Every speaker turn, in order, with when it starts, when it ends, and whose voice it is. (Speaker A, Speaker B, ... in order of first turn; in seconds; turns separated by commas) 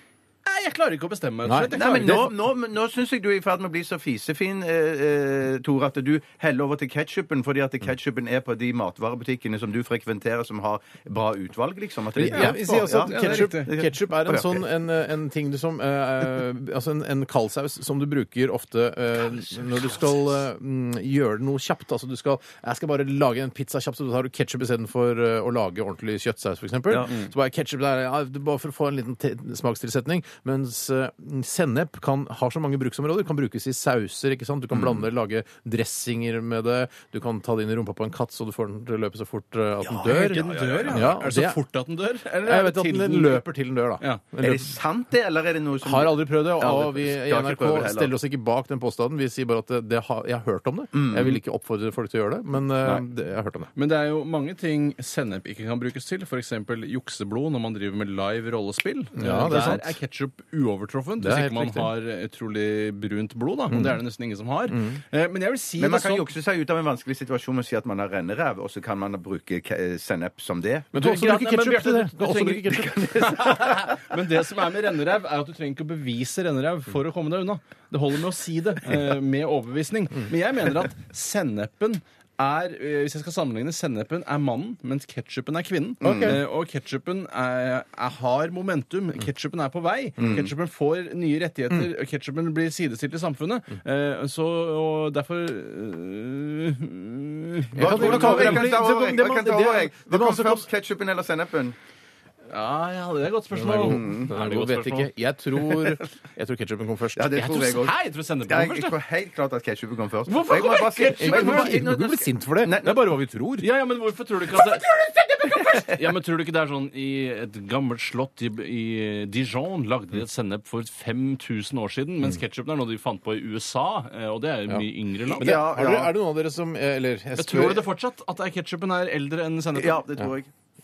Speaker A: 0.4-2.2, Speaker B: 1.4-2.4, Speaker C: 1.8-14.6, Speaker B: 12.1-41.6, Speaker A: 12.3-13.7, Speaker C: 34.7-35.0, Speaker C: 39.8-41.1, Speaker A: 40.1-43.4, Speaker B: 42.4-44.7, Speaker C: 44.4-48.1, Speaker B: 45.8-53.7, Speaker C: 50.9-51.4, Speaker A: 53.7-66.2, Speaker B: 59.1-60.0, Speaker B: 61.2-61.9, Speaker B: 63.7-64.0, Speaker B: 64.7-65.0, Speaker C: 65.8-70.9, Speaker B: 70.9-73.3, Speaker A: 70.9-72.7, Speaker C: 72.6-73.9, Speaker A: 73.2-98.7, Speaker B: 86.0-86.4, Speaker C: 86.0-86.4, Speaker C: 90.2-90.5, Speaker B: 97.8-100.7, Speaker C: 97.8-101.8, Speaker A: 102.5-105.1, Speaker B: 103.5-107.8, Speaker C: 103.7-104.3, Speaker C: 107.2-108.0, Speaker A: 107.4-109.0, Speaker C: 108.5-113.1, Speaker A: 110.3-111.8, Speaker B: 111.2-113.7, Speaker A: 113.6-125.5, Speaker C: 125.3-126.1, Speaker B: 125.4-127.8, Speaker A: 127.3-130.0, Speaker C: 129.7-130.5